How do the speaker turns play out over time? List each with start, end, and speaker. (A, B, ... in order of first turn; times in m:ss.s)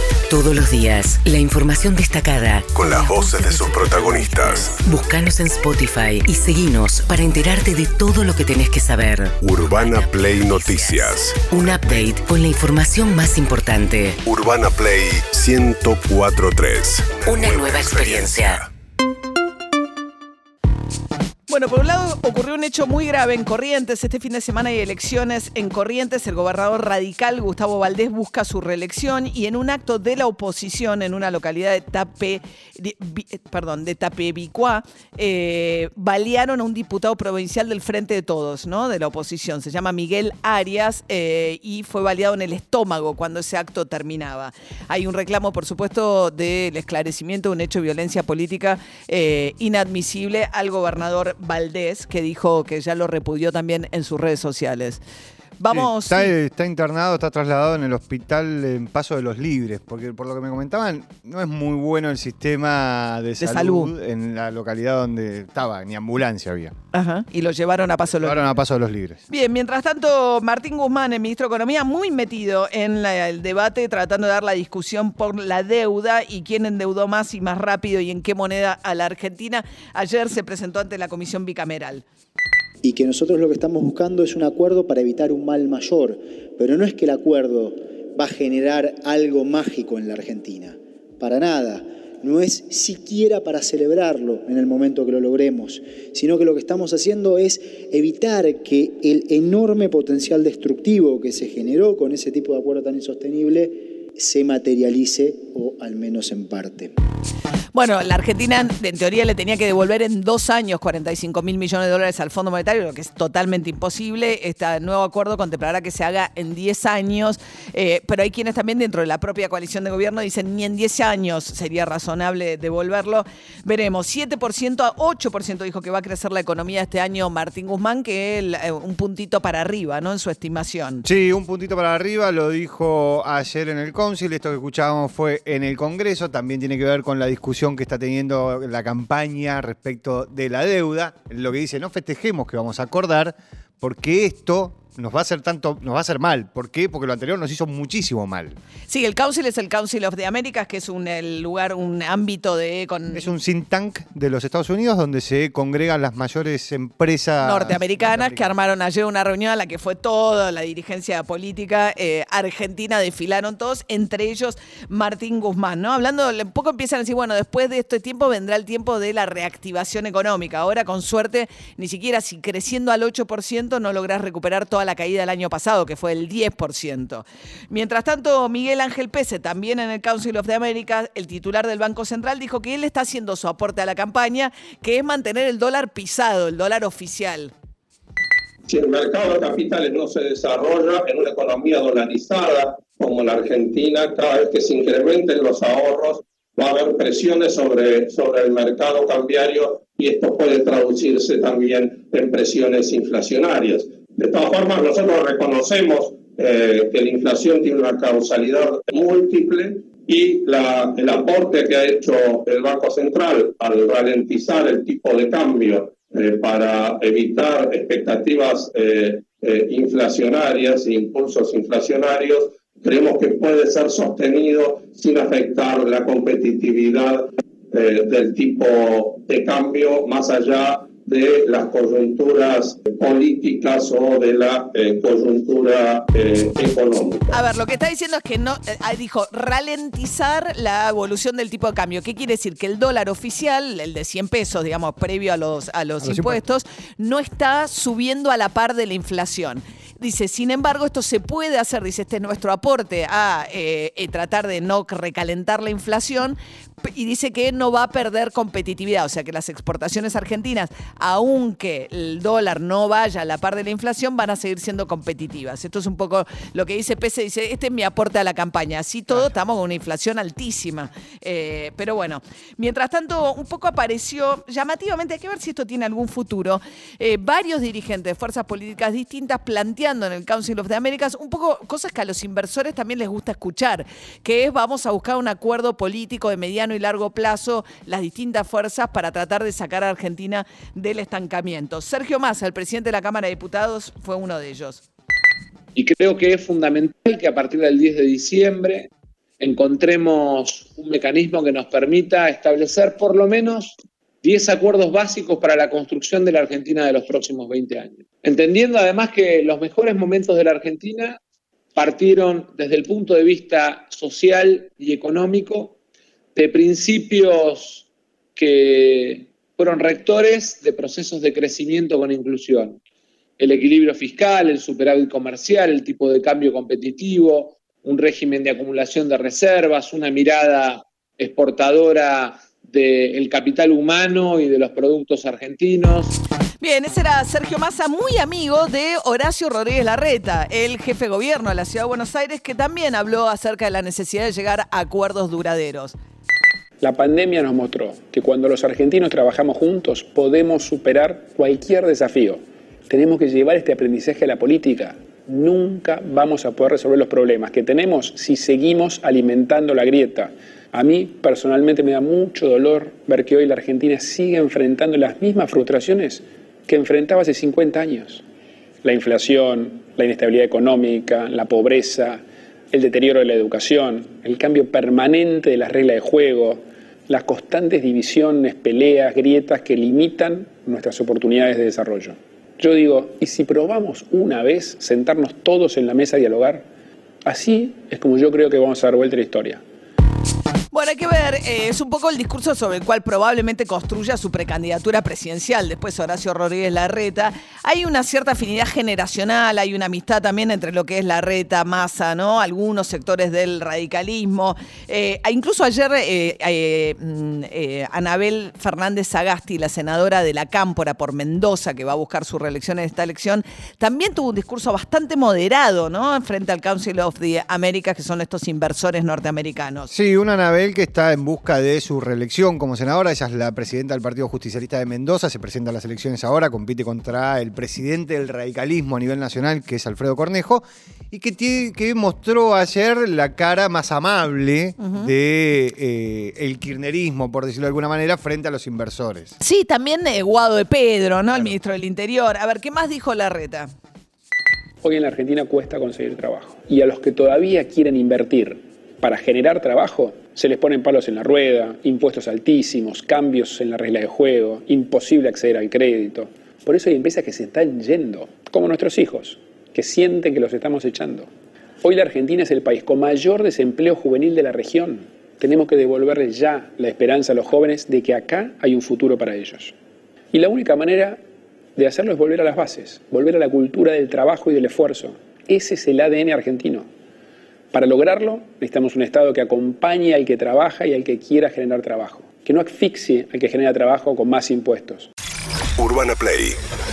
0:00.3-0:14.2 A
0:02.7-0:04.8 B
0:09.4-0:12.1 B
0:14.2-0:18.7 B
0:17.3-0:18.6 A
0:21.5-0:55.0 C
0:55.6-0:56.3 C
0:55.7-1:06.7 D
1:03.4-1:03.9 C
1:06.9-1:08.5 C
1:08.2-1:09.2 D
1:09.3-1:22.0 C
1:22.8-1:46.9 E
1:47.7-2:11.0 C
2:11.0-2:28.6 D
2:28.9-2:33.3 C
2:33.1-2:38.5 D
2:37.4-3:07.5 C
3:08.7-3:57.4 F
3:57.3-4:54.8 C
4:06.0-4:06.4 D
4:55.8-5:11.2 G
5:11.8-5:15.8 G
5:16.4-5:22.8 G
5:23.4-5:36.1 G
5:36.6-5:46.0 C
5:46.8-6:08.2 H
6:08.8-6:26.7 H
6:27.3-6:29.6 H
6:30.7-6:59.9 C
6:59.9-7:19.4 D
7:14.8-7:15.1 C
7:19.4-7:23.7 C
7:24.8-7:41.3 H
7:41.8-7:49.7 H
7:50.3-7:51.2 H
7:51.8-7:56.9 H
7:57.7-8:05.1 H
8:05.8-8:06.6 B